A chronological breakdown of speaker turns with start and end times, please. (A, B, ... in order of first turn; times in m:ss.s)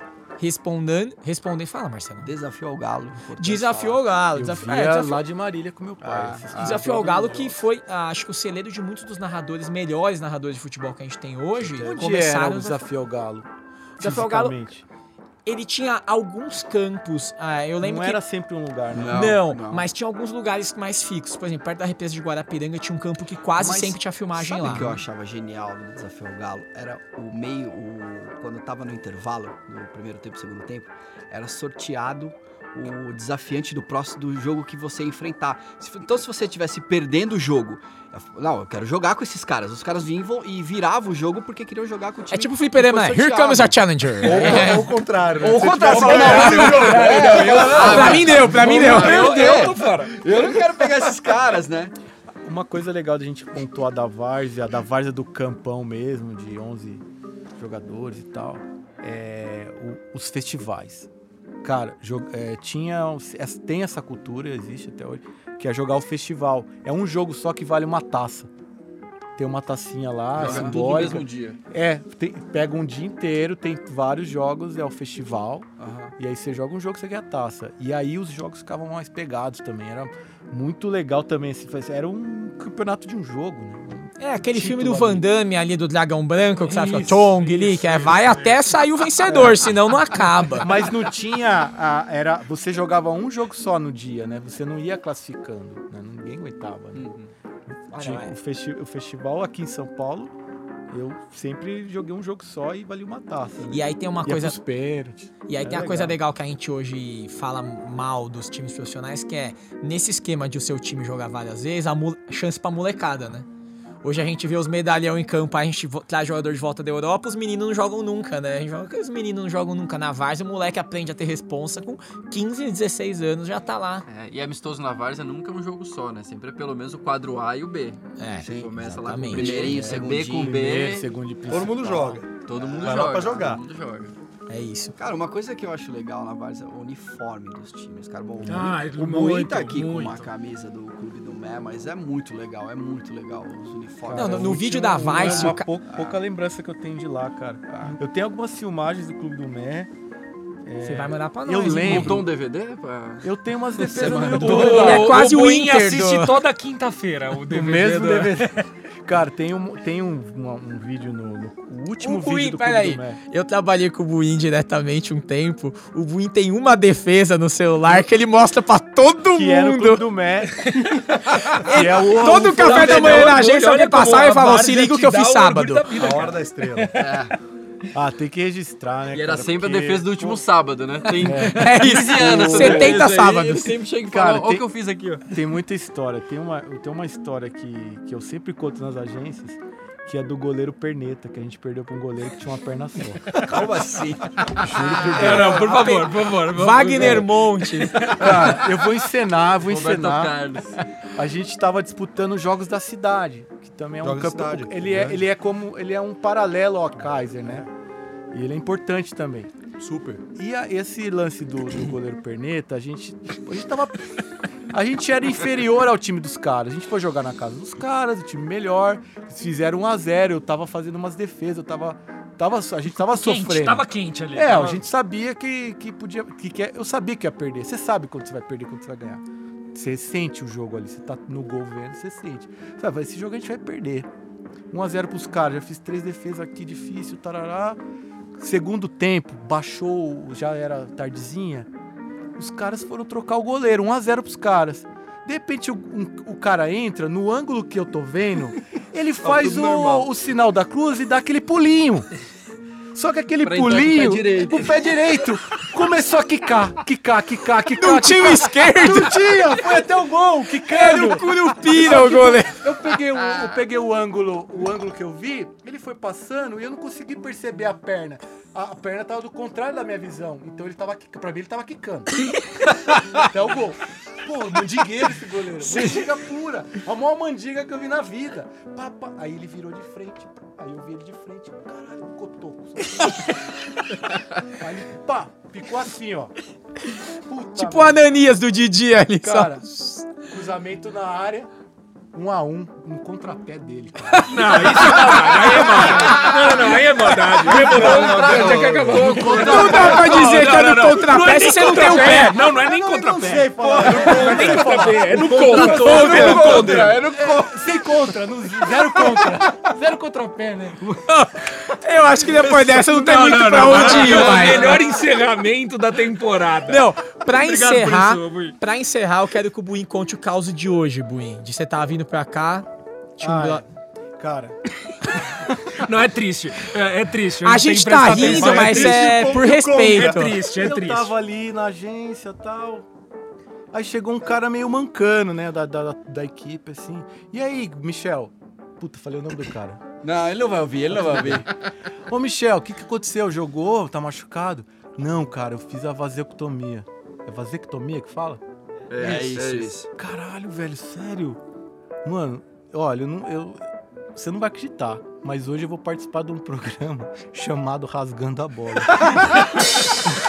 0:00.4-0:02.3 A
0:02.2-0:04.0 B
0:03.4-0:05.2 A
0:04.3-0:07.6 C
0:06.0-0:06.9 B
0:06.6-0:12.8 A
0:11.6-0:13.5 C
0:14.0-0:14.5 A
0:14.0-0:14.8 C
0:15.4-0:18.2 A
0:17.8-0:19.4 C
0:18.9-0:19.8 B
0:19.1-0:24.9 A
0:23.6-0:25.0 C
0:24.6-0:51.9 B
0:42.3-0:44.9 A
0:44.2-0:47.9 D
0:45.6-0:50.3 E
0:45.9-0:47.0 A
0:47.2-0:47.8 C
0:47.6-0:49.7 F
0:47.8-0:49.6 A
0:52.4-0:57.0 C
0:57.6-1:01.1 C
1:01.6-1:08.5 C
1:09.4-1:15.7 C
1:10.3-1:11.6 F
1:10.3-1:11.2 B
1:15.8-1:16.1 B
1:16.2-1:25.2 C
1:24.2-1:30.7 A
1:26.6-1:28.6 E
1:29.2-1:29.7 C
1:30.6-1:37.1 C
1:36.9-1:37.3 F
1:37.9-1:40.3 C
1:37.9-1:38.3 A
1:40.9-1:46.2 C
1:43.7-1:44.6 A
1:45.4-1:53.5 A
1:54.0-2:04.0 A
2:04.1-2:11.1 F
2:08.2-2:09.7 A
2:08.4-2:10.7 B
2:09.4-2:12.2 C
2:11.5-2:13.6 D
2:12.4-2:14.1 F
2:12.5-2:13.5 B
2:14.5-2:15.0 A
2:15.0-2:26.2 B
2:18.4-2:20.3 E
2:24.1-2:29.9 C
2:24.1-2:25.7 A
2:30.6-2:32.3 C
2:30.8-2:32.2 A
2:31.8-2:35.0 F
2:33.2-2:35.2 C
2:34.2-2:38.6 E
2:34.4-2:36.4 A
2:37.5-2:38.5 C
2:39.0-2:43.2 C
2:42.0-2:50.0 A
2:49.2-2:50.5 C
2:51.6-2:56.9 E
2:51.6-2:55.8 A
2:51.6-2:53.4 C
2:55.9-2:56.9 D
2:57.0-2:57.3 B
2:57.9-3:00.4 C
2:59.1-3:05.4 F
3:01.2-3:03.1 C
3:01.5-3:03.7 A
3:04.0-3:04.7 C
3:05.2-3:13.4 C
3:13.4-3:14.7 B
3:14.6-3:15.5 D
3:14.8-3:18.6 E
3:15.1-3:18.2 A
3:15.2-3:16.0 C
3:17.0-3:17.2 C
3:18.2-3:20.6 C
3:18.2-3:18.6 F
3:19.6-3:20.7 F
3:21.1-3:27.7 C
3:24.0-3:25.2 D
3:27.4-3:27.7 D
3:28.3-3:29.5 C
3:29.8-3:30.2 D
3:30.4-3:34.1 C
3:34.7-3:54.1 C
3:42.9-3:44.8 E
3:54.7-3:57.8 C
3:58.4-4:01.7 C
4:02.4-4:12.1 C
4:09.2-4:10.0 D
4:12.9-4:32.1 C
4:13.4-4:15.3 F
4:17.8-4:19.2 A
4:20.7-4:22.6 A
4:33.1-4:43.5 C
4:44.6-4:46.3 C
4:47.2-4:48.1 C
4:47.6-4:50.1 A
4:49.2-4:49.7 C
4:50.2-4:51.5 C
4:52.1-4:56.4 C
4:54.3-5:07.1 E
4:54.4-4:55.2 A
4:57.5-4:59.0 D
4:57.5-5:00.5 C
4:58.0-5:00.0 F
4:59.4-5:02.4 A
5:01.2-5:11.0 C
5:04.1-5:04.5 D
5:05.4-5:07.8 F
5:11.1-5:14.8 A
5:12.3-5:18.6 E
5:13.8-5:14.8 C
5:16.7-5:22.7 A
5:23.2-5:23.6 A
5:23.2-5:23.7 C
5:24.2-5:24.6 C
5:25.7-5:29.0 E
5:27.4-5:30.4 A
5:28.0-5:29.3 C
5:28.2-5:30.3 D
5:29.7-5:31.1 E
5:30.4-5:32.8 C
5:33.7-5:39.8 C
5:40.0-5:41.5 B
5:40.9-5:41.5 C
5:42.1-5:48.4 C
5:48.9-5:49.8 F
5:49.0-5:49.9 B
5:49.0-5:51.4 C
5:52.0-5:53.6 C
5:54.1-5:59.3 C